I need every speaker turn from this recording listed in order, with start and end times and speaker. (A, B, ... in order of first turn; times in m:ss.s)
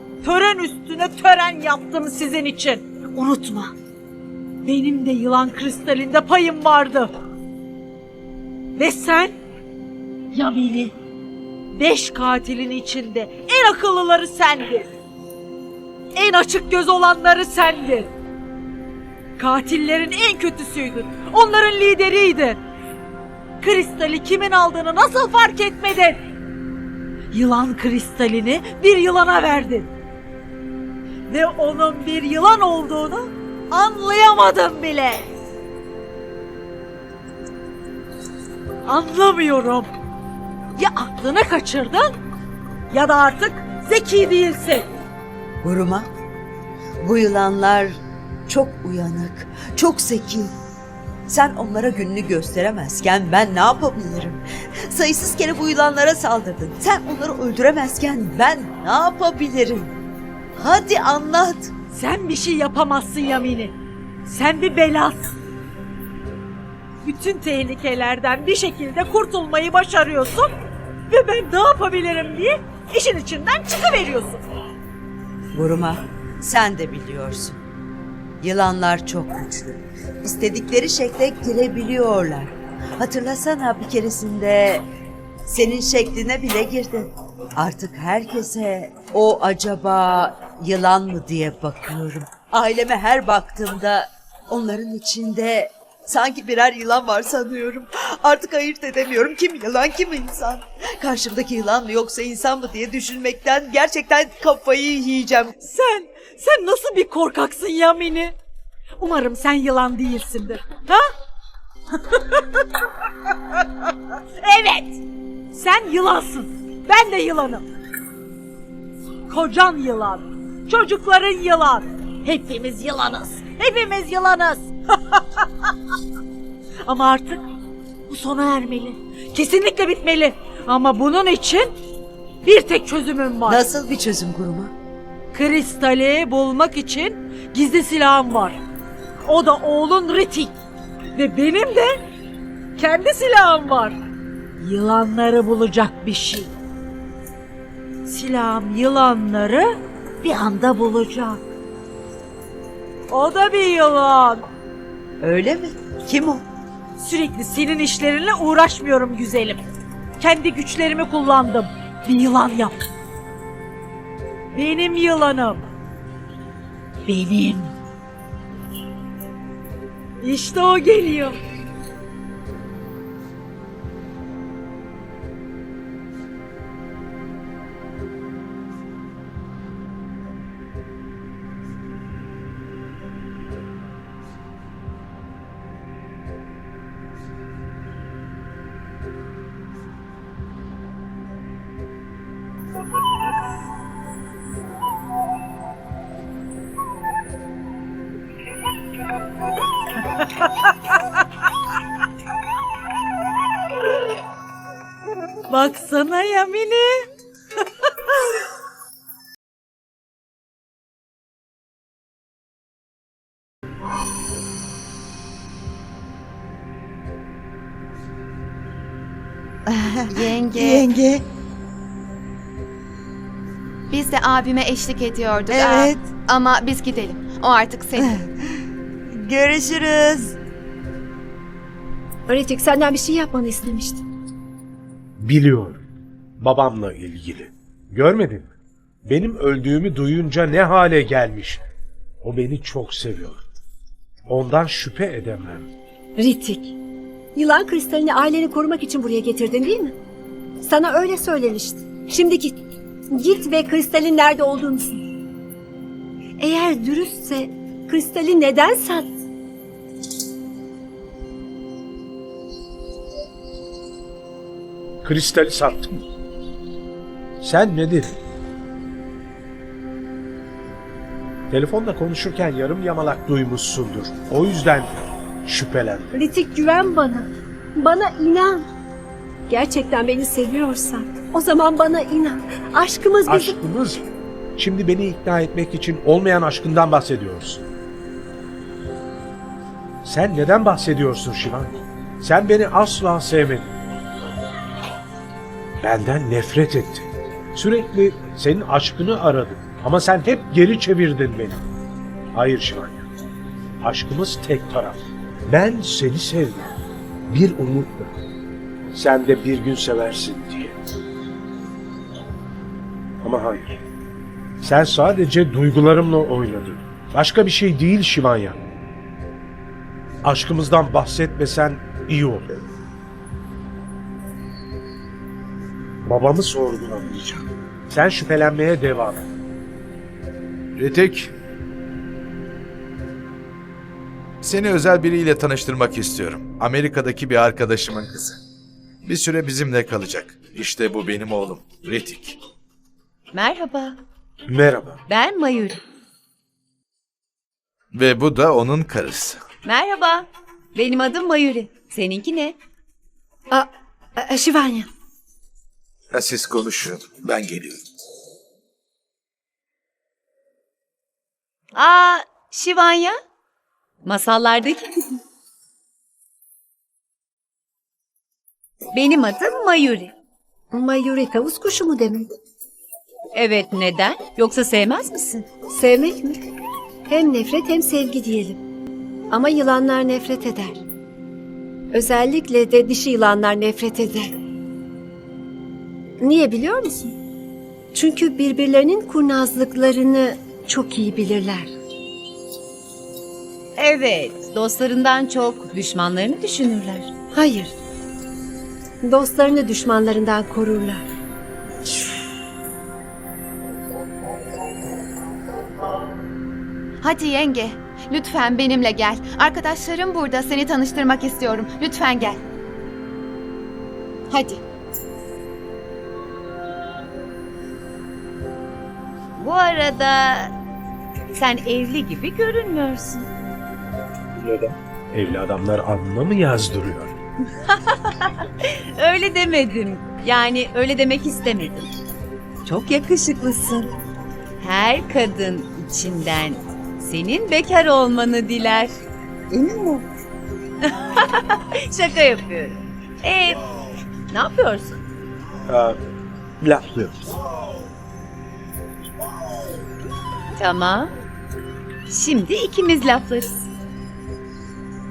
0:00.2-0:03.7 A
0:04.6-0:07.1 A
0:08.8-0:09.3 A
0:10.3-0:10.9 A
0:11.7-0:14.8 A
0:16.1-0:18.1 A
0:19.4-0:22.6 A
0:23.6-0:26.2 A
0:27.3-0:29.9 A
0:31.3-0:35.2 A
0:38.9-0:39.9 A
0:40.8-0:42.1 A
0:42.9-0:44.8 A
0:45.6-0:46.1 B
0:47.0-0:50.5 B
0:51.3-0:59.9 B
1:00.6-1:01.7 B
1:01.9-1:03.7 A
1:04.2-1:05.3 A
1:07.0-1:10.5 A
1:11.1-1:14.4 A
1:15.5-1:17.6 B
1:18.4-1:24.8 B
1:25.5-1:45.5 B
1:45.7-1:48.3 A
1:49.0-1:51.0 A
1:54.4-1:54.9 A
1:55.5-1:57.6 A
1:59.3-2:05.2 A
2:06.9-2:07.4 A
2:08.1-2:11.7 A
2:12.4-2:13.6 A
2:13.4-2:14.7 B
2:15.3-2:18.6 A
2:19.3-2:20.5 A
2:21.1-2:21.9 A
2:22.8-2:24.0 A
2:24.6-2:26.5 A
2:28.0-2:29.7 A
2:30.2-2:31.4 A
2:33.1-2:34.4 A
2:35.2-2:36.4 B
2:37.0-2:39.6 A
2:40.2-2:42.7 A
2:44.5-2:45.6 A
2:47.0-2:47.7 A
2:50.2-2:51.3 A
3:25.5-3:27.0 A
3:39.7-3:41.2 B
3:40.1-3:40.8 C
3:43.9-3:48.1 C
3:45.5-3:46.1 B
3:48.0-3:48.3 B
3:49.1-3:50.4 B
3:52.3-3:54.0 D
3:55.2-3:55.8 E
3:56.4-3:58.5 E
3:59.0-4:01.6 E
4:02.2-4:03.4 E
4:04.3-4:05.7 E
4:06.2-4:06.7 D
4:07.3-4:09.9 D
4:10.6-4:12.6 D
4:13.1-4:15.0 D
4:16.4-4:19.1 D
4:25.0-4:26.0 E
4:27.4-4:28.1 E
4:31.5-4:34.9 E
4:35.4-4:36.1 E
4:36.1-4:38.6 D
4:39.5-4:43.6 D
4:43.3-4:47.6 E
4:50.0-4:53.7 E
4:55.8-5:01.6 E
5:02.3-5:03.0 E
5:03.8-5:06.7 E
5:07.3-5:08.1 E
5:08.9-5:10.7 E
5:13.2-5:13.8 E
5:14.6-5:18.6 E
5:20.2-5:22.5 E
5:26.0-5:29.2 E
5:30.8-5:31.3 F
5:34.4-5:38.4 F
5:39.0-5:42.4 F
5:43.3-5:44.0 G
5:44.5-5:45.0 E
5:45.1-5:45.8 G
5:47.9-5:49.4 F
5:49.6-5:52.6 G
5:53.5-5:54.9 D
5:56.1-5:57.8 F
6:01.7-6:03.1 G
6:04.0-6:05.2 G
6:08.9-6:10.1 G
6:10.7-6:12.3 D
6:13.3-6:15.4 G
6:15.7-6:16.4 D
6:17.1-6:18.6 D
6:19.3-6:20.8 D
6:21.9-6:24.3 D
6:26.2-6:27.1 D
6:27.9-6:31.7 D
6:33.8-6:37.1 G
6:37.3-6:37.7 D
6:39.0-6:41.0 D
6:47.0-6:52.4 C
6:54.3-6:54.6 C
6:59.4-7:00.5 G
7:01.3-7:03.3 G
7:05.1-7:07.1 E
7:07.7-7:11.9 G
7:12.6-7:13.9 G
7:14.6-7:18.9 G
7:19.5-7:20.0 G
7:20.8-7:23.6 G
7:24.3-7:25.0 G
7:25.7-7:26.0 E
7:26.6-7:27.2 E
7:30.5-7:31.1 G
7:32.1-7:33.6 G